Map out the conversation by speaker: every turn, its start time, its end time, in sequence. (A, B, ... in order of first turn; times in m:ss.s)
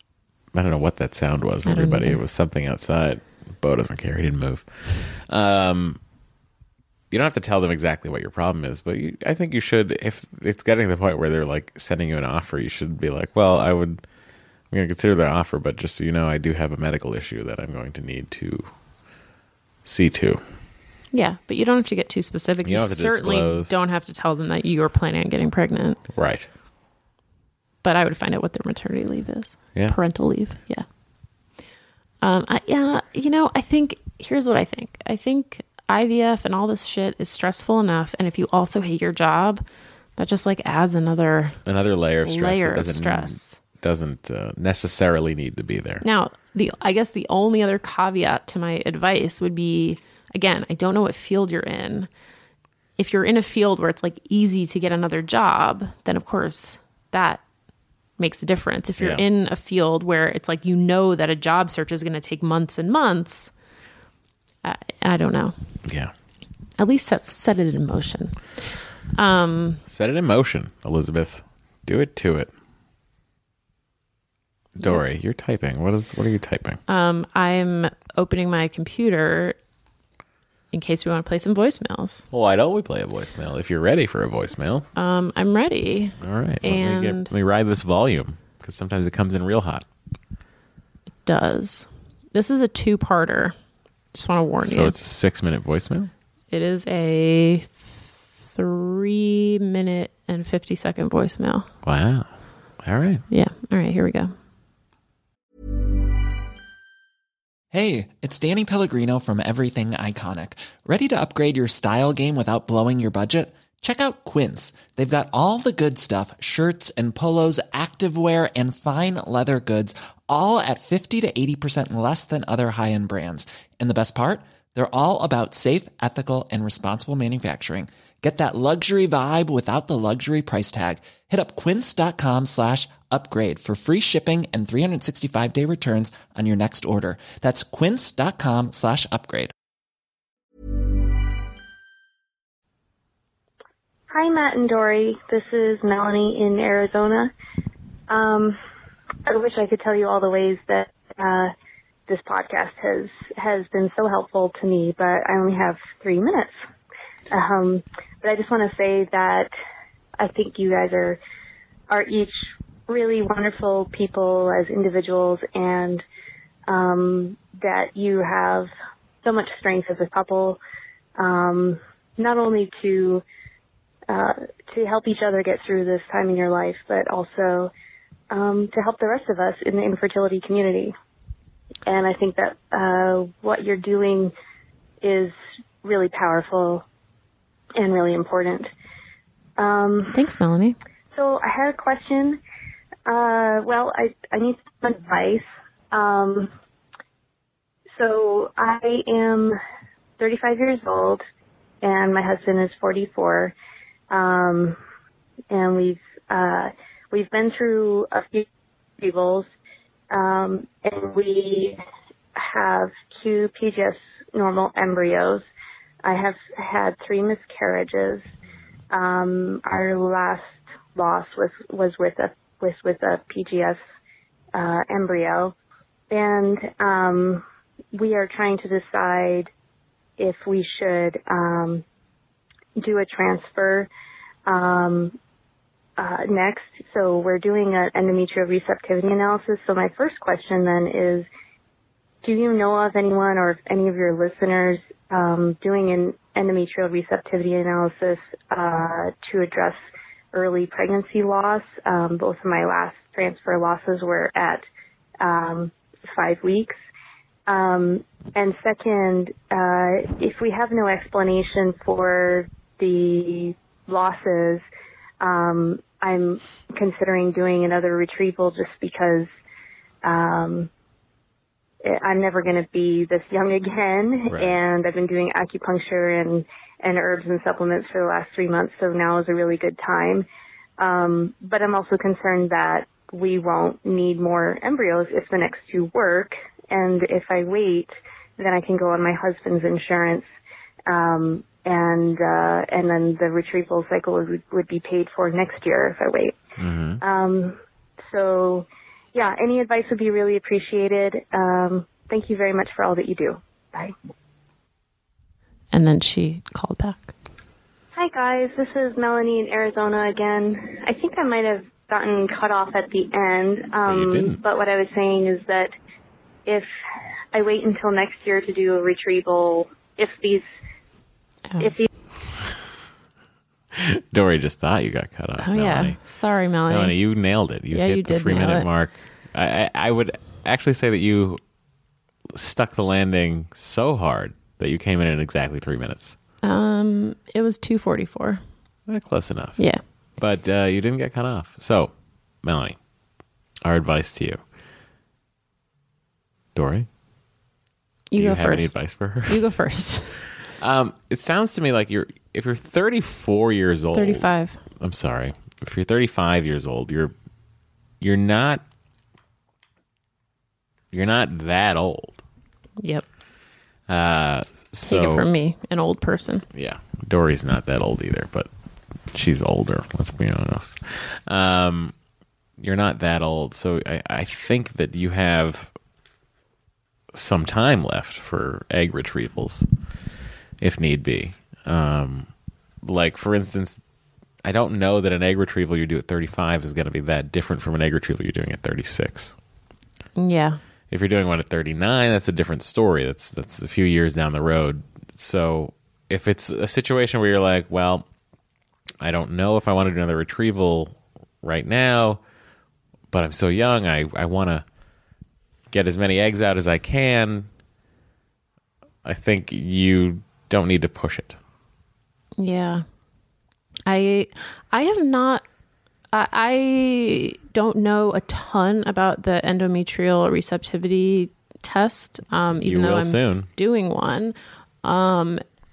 0:00.5-0:06.0 A
0:01.6-0:02.2 B
0:07.1-0:14.0 A
0:14.7-0:18.7 A
0:19.8-0:20.4 A
0:21.1-0:26.0 B
0:22.6-0:23.8 A
0:26.1-0:26.5 A
0:27.8-0:30.9 B
0:32.2-0:39.6 B
0:40.2-0:41.6 B
0:41.7-0:46.0 A
0:42.2-0:43.6 B
0:46.0-0:52.1 B
0:53.0-0:57.4 B
0:58.2-1:03.5 B
0:59.0-0:59.2 A
1:04.6-1:05.6 B
1:05.9-1:06.1 A
1:06.8-1:09.8 B
1:09.9-1:12.5 A
1:14.8-1:16.8 A
1:16.9-1:19.6 B
1:20.7-1:22.3 B
1:22.3-1:24.9 A
1:25.0-1:27.3 B
1:26.2-1:29.8 A
1:31.2-1:33.6 B
1:34.1-1:35.0 B
1:34.6-1:36.1 A
1:36.5-1:41.7 B
1:41.8-1:42.3 A
1:42.8-1:43.2 A
1:43.3-1:44.3 B
1:47.7-2:19.5 C
2:24.1-2:27.3 D
2:28.1-2:28.6 D
2:29.3-2:31.5 D
2:32.1-2:36.5 D
2:37.3-2:39.5 D
2:40.2-2:41.2 D
2:41.9-2:42.4 D
2:42.9-2:46.0 D
2:46.7-2:48.7 D
2:49.2-2:50.6 D
2:51.2-2:53.2 D
2:54.1-2:57.7 D
2:58.3-3:00.9 D
3:01.9-3:04.3 D
3:05.0-3:06.8 D
3:07.8-3:08.7 D
3:09.6-3:10.2 D
3:10.1-3:10.8 B
3:11.1-3:12.4 D
3:13.1-3:16.5 D
3:18.0-3:19.6 D
3:20.2-3:21.2 D
3:21.8-3:23.5 D
3:24.1-3:24.8 D
3:25.5-3:28.5 D
3:29.0-3:29.5 D
3:30.1-3:31.8 D
3:32.4-3:35.4 D
3:36.0-3:38.3 D
3:38.9-3:43.8 D
3:44.5-3:45.5 D
3:46.1-3:49.5 D
3:50.2-3:51.8 D
3:52.8-3:53.9 D
3:54.5-3:55.2 D
3:56.0-4:01.3 D
4:02.2-4:09.8 D
4:10.3-4:14.6 D
4:15.2-4:16.8 D
4:17.5-4:24.6 D
4:25.2-4:29.3 D
4:30.0-4:30.7 D
4:31.8-4:40.3 D
4:34.3-4:34.6 A
4:40.8-4:50.3 D
4:50.9-4:56.4 D
4:56.6-4:57.0 A
4:57.0-4:57.6 D
4:58.1-5:03.9 D
5:05.7-5:07.1 B
5:08.0-5:15.7 D
5:13.8-5:14.4 A
5:17.3-5:20.5 D
5:21.6-5:21.9 D
5:22.3-5:22.6 A
5:23.7-5:26.0 A
5:25.4-5:27.0 B
5:26.7-5:31.4 A
5:27.7-5:28.7 B
5:32.3-5:36.2 A
5:36.4-5:38.4 B
5:38.9-5:39.6 A
5:40.2-5:41.9 A
5:42.4-5:42.8 A
5:43.6-5:44.4 A
5:46.6-5:46.9 A
5:48.1-5:50.2 B
5:48.2-5:49.4 A
5:50.6-5:54.3 A
5:53.9-5:54.6 B
5:54.8-5:57.1 A
5:58.0-5:58.6 A
6:00.9-6:02.2 A
6:02.8-6:03.0 B
6:03.9-6:05.3 A
6:04.8-6:06.4 B
6:06.5-6:08.5 A
6:09.1-6:11.9 A
6:12.6-6:15.7 A
6:17.1-6:19.7 A
6:20.6-6:22.3 A
6:22.8-6:23.8 A
6:24.4-6:29.4 A
6:30.2-6:30.6 B
6:30.9-6:38.1 A
6:39.0-6:42.2 A
6:43.1-6:44.6 A
6:45.7-6:47.5 A
6:49.0-6:51.4 A
6:52.4-6:52.8 B
6:53.9-6:55.4 B
6:56.1-7:05.4 B
7:02.6-7:03.5 A